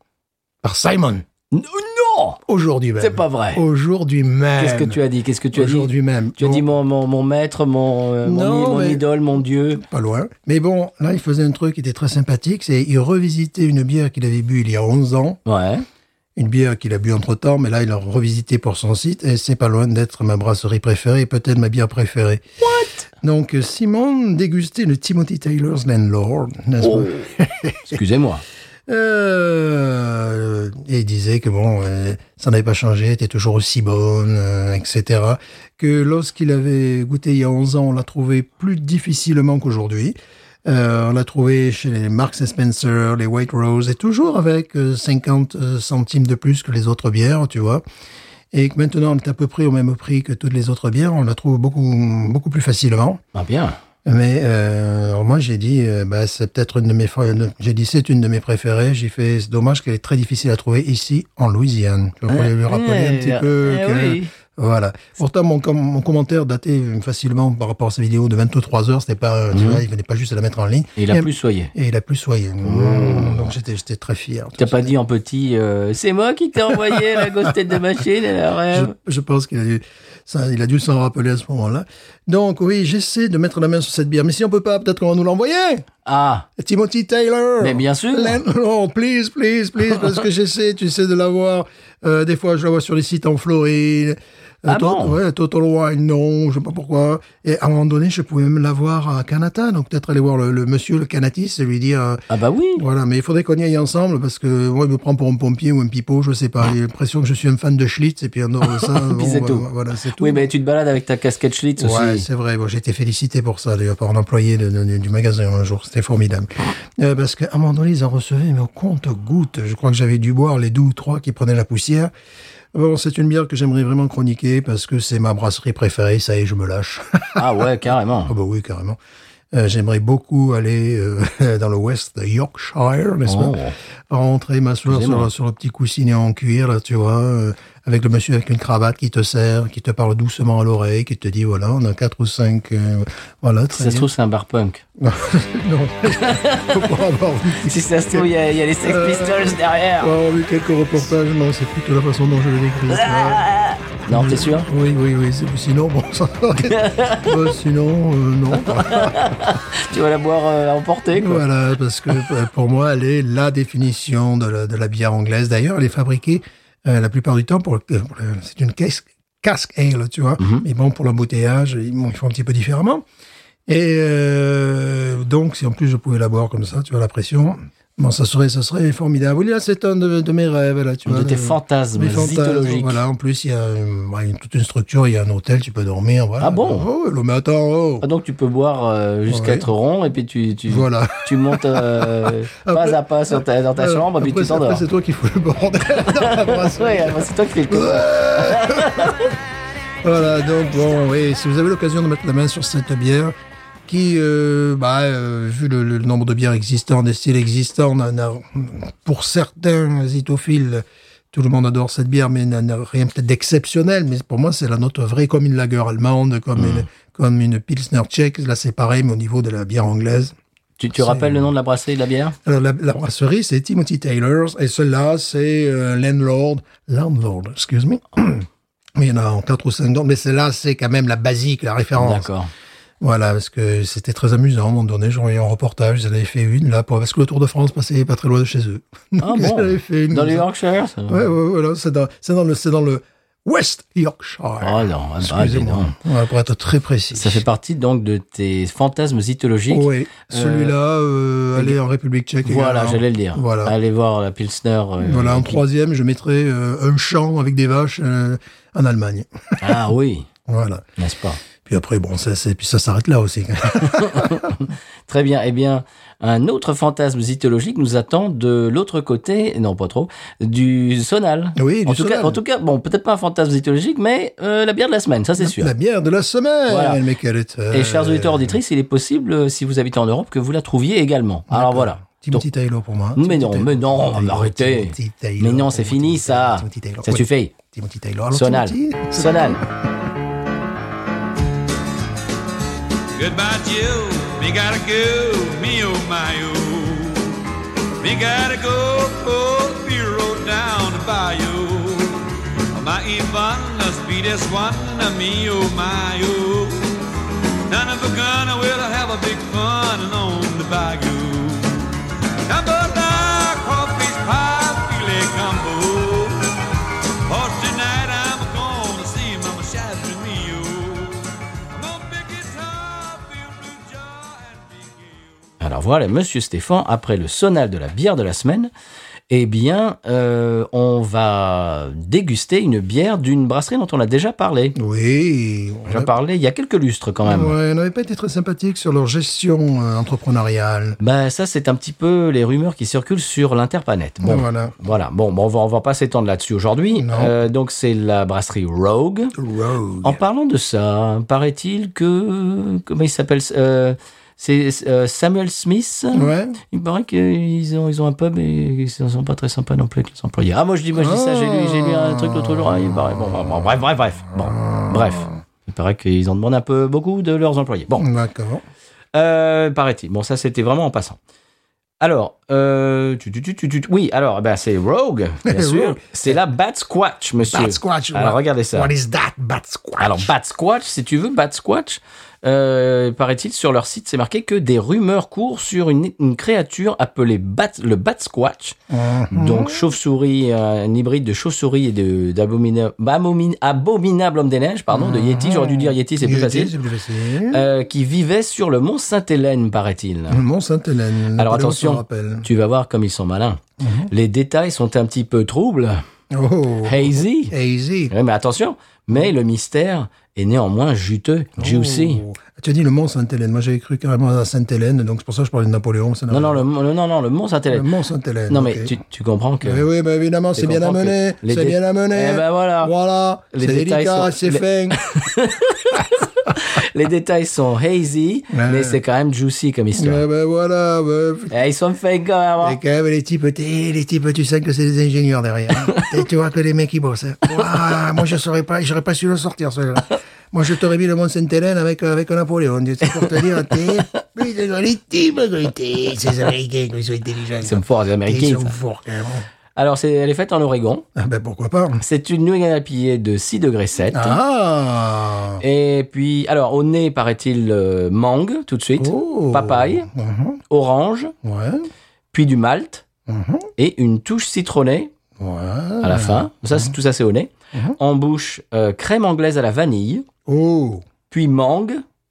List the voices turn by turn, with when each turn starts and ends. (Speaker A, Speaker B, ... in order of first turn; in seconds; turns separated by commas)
Speaker A: 0.6-1.2, Speaker B: 1.5-2.4, Speaker A: 2.5-5.0, Speaker B: 3.0-3.6, Speaker B: 4.6-9.8, Speaker A: 5.5-6.7, Speaker A: 8.2-9.1, Speaker A: 9.7-15.4, Speaker B: 15.5-15.8, Speaker A: 16.4-22.4, Speaker B: 22.6-23.1, Speaker A: 23.2-28.0, Speaker B: 26.8-27.3, Speaker B: 27.9-28.4, Speaker A: 28.9-47.8, Speaker A: 48.5-53.2, Speaker B: 53.3-53.8, Speaker A: 54.0-74.9, Speaker B: 62.3-64.3, Speaker B: 69.5-69.8, Speaker B: 71.0-71.7, Speaker B: 72.6-73.5, Speaker B: 74.6-78.9, Speaker A: 76.7-77.5, Speaker A: 78.7-85.9, Speaker B: 86.0-86.5, Speaker A: 86.6-102.2, Speaker B: 87.6-88.4, Speaker B: 94.7-95.2, Speaker B: 102.3-102.8, Speaker A: 102.8-110.5, Speaker B: 108.7-112.2, Speaker A: 111.8-122.1, Speaker A: 122.7-127.7, Speaker B: 127.4-128.3, Speaker A: 128.3-129.0, Speaker A: 129.5-133.6, Speaker B: 133.3-133.8, Speaker A: 134.1-144.1, Speaker B: 134.9-135.3, Speaker B: 143.7-144.8, Speaker A: 145.0-148.3, Speaker B: 146.2-146.8, Speaker B: 147.6-150.1, Speaker A: 148.8-153.4, Speaker B: 152.9-154.7, Speaker A: 154.1-159.4, Speaker B: 156.6-157.3, Speaker B: 158.5-161.4, Speaker A: 161.1-173.0, Speaker B: 170.4-170.6, Speaker A: 173.7-188.1, Speaker B: 181.1-183.0, Speaker B: 186.4-186.9, Speaker B: 188.0-194.8, Speaker A: 189.3-189.7, Speaker A: 190.7-199.3, Speaker B: 196.0-199.3, Speaker A: 200.0-203.3, Speaker A: 203.9-220.3, Speaker B: 216.6-216.9, Speaker B: 220.8-222.4, Speaker A: 220.9-221.5, Speaker A: 222.4-232.3, Speaker B: 232.0-232.5, Speaker A: 233.0-240.4, Speaker B: 239.2-241.3, Speaker A: 241.1-247.4, Speaker B: 244.6-245.9, Speaker B: 247.1-250.7, Speaker A: 249.7-253.7, Speaker B: 252.4-255.6, Speaker A: 255.0-259.8, Speaker B: 259.6-260.3, Speaker A: 260.4-260.9, Speaker B: 261.0-261.4, Speaker A: 261.6-264.5, Speaker B: 263.8-275.7, Speaker A: 271.6-272.4, Speaker A: 275.4-278.6, Speaker B: 276.7-277.0, Speaker B: 277.7-282.4, Speaker A: 281.5-289.6, Speaker B: 283.2-287.5, Speaker B: 288.3-289.6, Speaker C: 293.1-297.4, Speaker C: 298.0-307.0, Speaker C: 307.7-316.5, Speaker C: 317.3-325.4, Speaker B: 325.6-328.7, Speaker B: 329.3-334.8, Speaker A: 334.8-336.1, Speaker B: 335.9-337.6, Speaker A: 337.2-341.0, Speaker B: 341.0-349.3, Speaker A: 344.2-344.8, Speaker A: 346.9-347.3, Speaker A: 349.3-350.2, Speaker B: 350.0-368.1, Speaker A: 356.1-356.6, Speaker A: 360.9-365.4, Speaker A: 368.0-368.6, Speaker B: 369.1-371.2, Speaker B: 372.0-378.9, Speaker A: 375.4-376.4, Speaker A: 377.4-380.3, Speaker B: 380.0-388.8, Speaker A: 388.9-389.9, Speaker B: 389.3-396.7, Speaker A: 394.9-397.6, Speaker B: 397.5-400.4, Speaker A: 400.3-402.5, Speaker B: 401.4-406.0, Speaker A: 403.8-404.1, Speaker A: 406.3-408.1, Speaker B: 406.8-407.5, Speaker B: 408.1-412.2, Speaker A: 411.6-416.6, Speaker B: 416.3-417.9, Speaker A: 417.7-418.9, Speaker B: 418.5-419.8, Speaker A: 419.6-425.0, Speaker B: 420.6-422.9, Speaker B: 423.5-430.2, Speaker A: 428.5-429.0, Speaker A: 429.9-431.5, Speaker B: 431.5-432.8, Speaker A: 432.6-449.4, Speaker B: 447.6-448.8, Speaker B: 449.8-451.1, Speaker A: 451.2-452.0, Speaker B: 452.0-454.4, Speaker A: 454.1-455.6, Speaker B: 455.6-460.1, Speaker A: 459.0-460.6, Speaker B: 460.7-461.3, Speaker A: 461.4-461.9, Speaker B: 462.3-463.1, Speaker A: 463.3-463.7, Speaker B: 463.8-465.1, Speaker A: 465.4-466.9, Speaker B: 466.0-470.3, Speaker A: 470.4-471.1, Speaker B: 471.3-472.0